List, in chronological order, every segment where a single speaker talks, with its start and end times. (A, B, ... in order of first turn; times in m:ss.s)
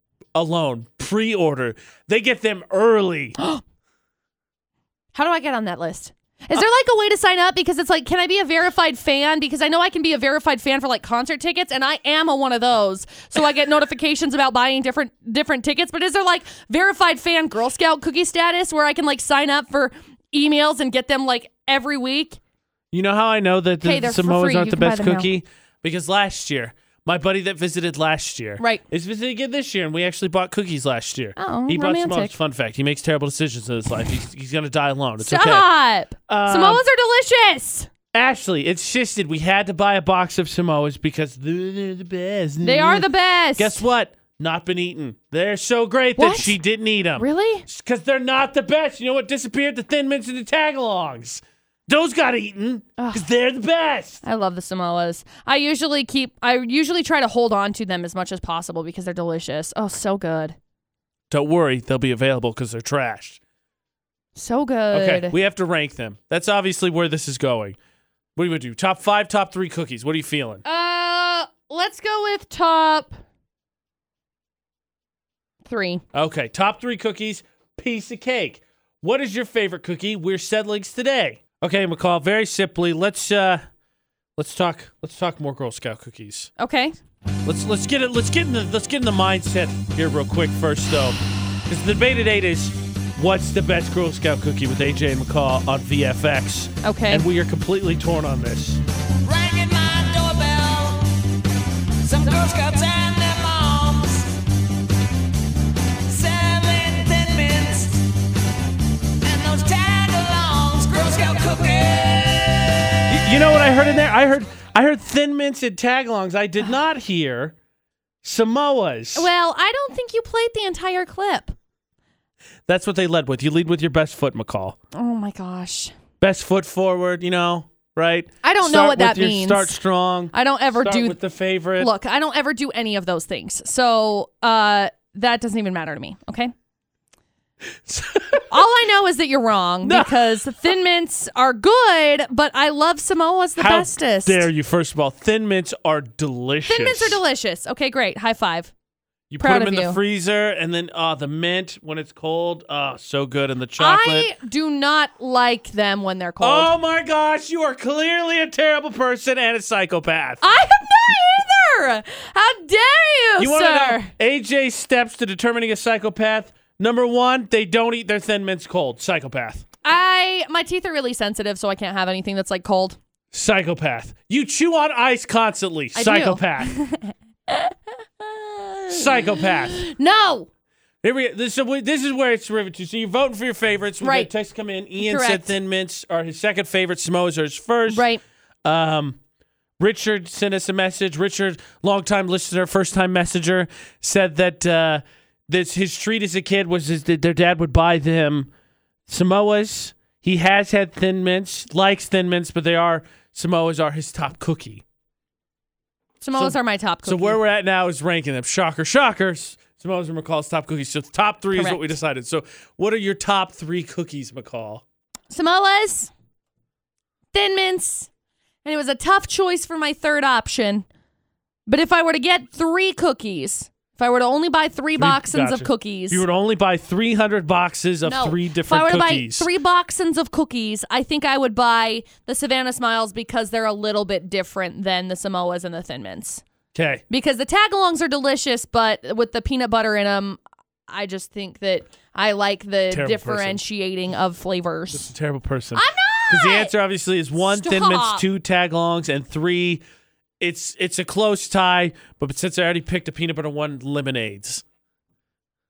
0:00.4-0:03.4 A
0:05.2-0:22.4 B
0:22.9-0:35.7 A
0:23.8-0:25.3 B
0:31.4-0:32.3 B
0:35.2-0:37.9 B
0:36.3-0:36.8 A
0:38.1-0:54.2 A
0:42.6-0:43.8 B
0:46.2-0:46.6 B
0:47.2-0:47.7 B
0:53.0-0:53.3 B
0:54.2-1:00.6 B
1:01.3-1:03.4 A
1:04.4-1:05.4 B
1:04.9-1:07.8 A
1:08.4-1:10.6 A
1:10.6-1:13.2 B
1:15.7-1:16.0 B
1:16.1-1:23.6 A
1:24.4-1:26.5 A
1:26.6-1:27.0 B
1:27.4-1:38.8 A
1:36.8-1:37.3 B
1:39.2-1:41.2 C
1:42.0-1:44.4 C
1:46.1-1:48.1 C
1:49.2-1:52.9 C
1:53.1-1:57.6 A
1:58.2-1:59.3 A
1:59.2-2:01.6 B
2:02.7-2:04.8 A
2:04.9-2:05.9 B
2:06.2-2:11.9 A
2:08.4-2:09.8 B
2:10.3-2:11.2 B
2:11.8-2:16.5 B
2:17.9-2:18.5 A
2:18.5-2:24.5 B
2:19.8-2:20.5 A
2:23.6-2:27.2 A
2:26.7-2:28.7 B
2:29.3-2:34.3 A
2:29.4-2:30.0 B
2:33.8-2:36.7 B
2:36.4-2:40.4 A
2:40.4-2:44.1 B
2:43.4-2:49.6 A
2:49.8-2:53.0 B
2:53.3-2:56.7 A
2:56.0-3:00.5 B
2:58.9-2:59.9 A
3:01.0-3:08.1 A
3:04.0-3:04.3 B
3:05.0-3:05.6 B
3:07.9-3:08.2 B
3:08.6-3:09.2 A
3:09.8-3:18.5 A
3:19.1-3:24.8 A
3:26.2-3:27.4 B
3:26.3-3:34.8 A
3:31.5-3:31.9 B
3:35.3-3:36.1 B
3:37.3-3:38.1 B
3:38.6-3:40.9 B
3:41.7-3:46.2 B
3:45.0-3:49.5 A
3:48.0-3:56.4 B
3:56.7-3:57.0 A
3:57.1-4:05.1 B
4:02.9-4:03.6 A
4:04.9-4:09.8 A
4:05.8-4:06.7 B
4:07.4-4:08.2 B
4:10.4-4:14.6 A